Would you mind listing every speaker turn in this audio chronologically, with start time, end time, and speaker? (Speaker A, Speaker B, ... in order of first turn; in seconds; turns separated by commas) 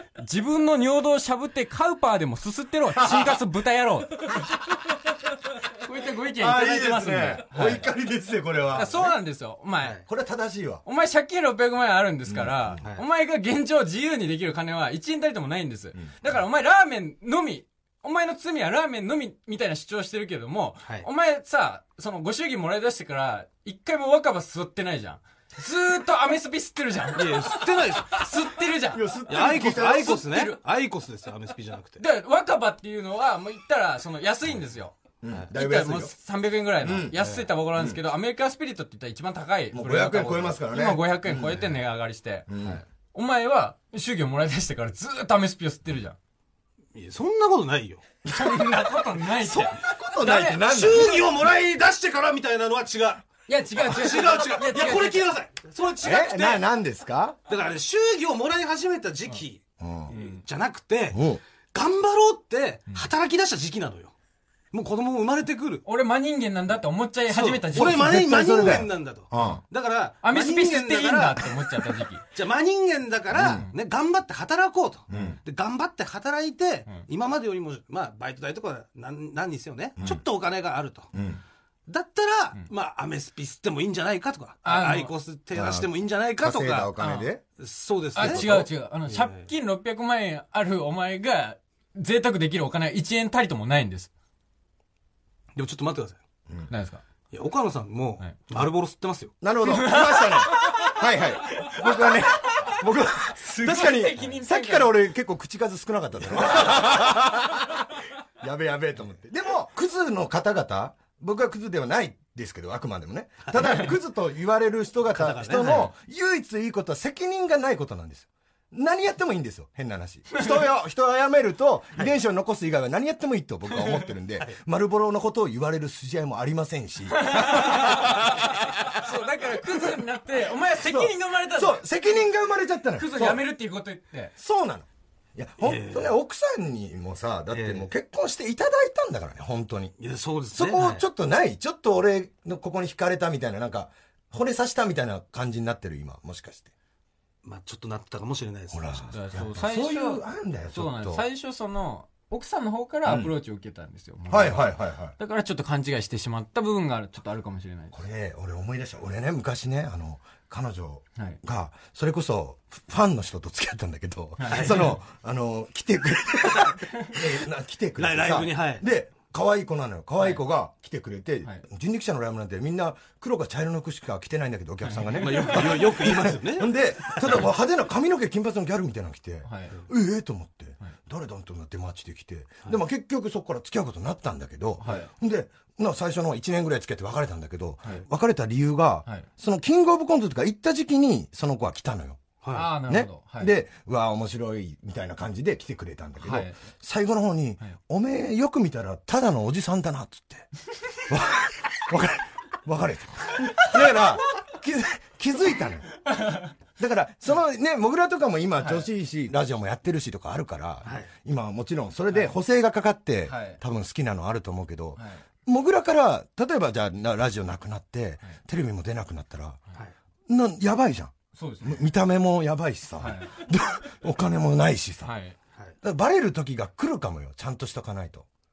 Speaker A: 0.2-4.4, Speaker B: 3.0-3.4, Speaker A: 5.8-7.9, Speaker B: 6.4-9.1, Speaker A: 8.7-10.0, Speaker B: 10.1-10.8, Speaker A: 10.8-30.6, Speaker B: 12.3-12.8, Speaker C: 27.2-28.3, Speaker B: 28.9-30.2, Speaker C: 29.3-32.0, Speaker A: 32.0-35.0, Speaker B: 35.2-36.1, Speaker A: 35.5-46.2, Speaker B: 36.8-38.0, Speaker B: 39.7-41.7, Speaker B: 42.5-42.8, Speaker C: 46.9-48.0, Speaker A: 48.3-50.7, Speaker B: 48.3-51.4, Speaker C: 50.5-56.6, Speaker A: 53.5-55.3, Speaker B: 56.0-57.4, Speaker C: 57.5-64.1, Speaker B: 59.8-60.4, Speaker B: 61.1-61.4, Speaker C: 64.7-65.8, Speaker A: 65.8-68.2, Speaker C: 67.3-71.7, Speaker B: 67.8-69.6, Speaker A: 70.2-72.2, Speaker C: 72.3-81.2, Speaker B: 73.3-73.7, Speaker B: 75.1-75.4, Speaker B: 81.1-81.4, Speaker C: 81.9-86.9, Speaker A: 84.7-85.1, Speaker B: 85.5-87.4, Speaker A: 87.0-87.3, Speaker C: 87.6-88.5, Speaker A: 88.2-94.1, Speaker B: 88.2-88.7, Speaker C: 89.1-89.5, Speaker C: 95.5-96.2, Speaker A: 96.7-97.0, Speaker C: 97.3-99.4, Speaker B: 99.4-107.8, Speaker A: 99.6-102.8, Speaker A: 103.3-104.9, Speaker B: 108.4-128.9, Speaker C: 115.1-115.9, Speaker A: 127.1-131.8, Speaker B: 130.8-133.4, Speaker A: 133.0-134.3, Speaker B: 134.4-139.9, Speaker C: 135.6-136.2, Speaker C: 137.5-137.9, Speaker C: 140.0-141.1, Speaker B: 140.5-146.7, Speaker C: 147.4-149.2, Speaker B: 148.7-151.2, Speaker A: 149.1-157.9, Speaker B: 153.1-153.3, Speaker B: 154.3-155.1, Speaker B: 157.9-192.2, Speaker A: 164.4-165.0, Speaker C: 164.5-164.8, Speaker C: 168.0-168.8, Speaker A: 174.8-175.8, Speaker C: 175.2-177.5, Speaker A: 179.4-179.8, Speaker A: 184.8-185.1, Speaker C: 192.4-192.7, Speaker A: 192.5-193.5, Speaker B: 192.9-200.5, Speaker A: 196.2-196.6, Speaker B: 201.1-205.9, Speaker A: 206.1-206.5, Speaker B: 206.8-219.6, Speaker A: 208.6-208.9, Speaker A: 213.3-213.6, Speaker B: 220.3-225.1, Speaker A: 221.3-221.9, Speaker A: 223.0-223.4, Speaker A: 225.0-225.4, Speaker B: 225.8-228.3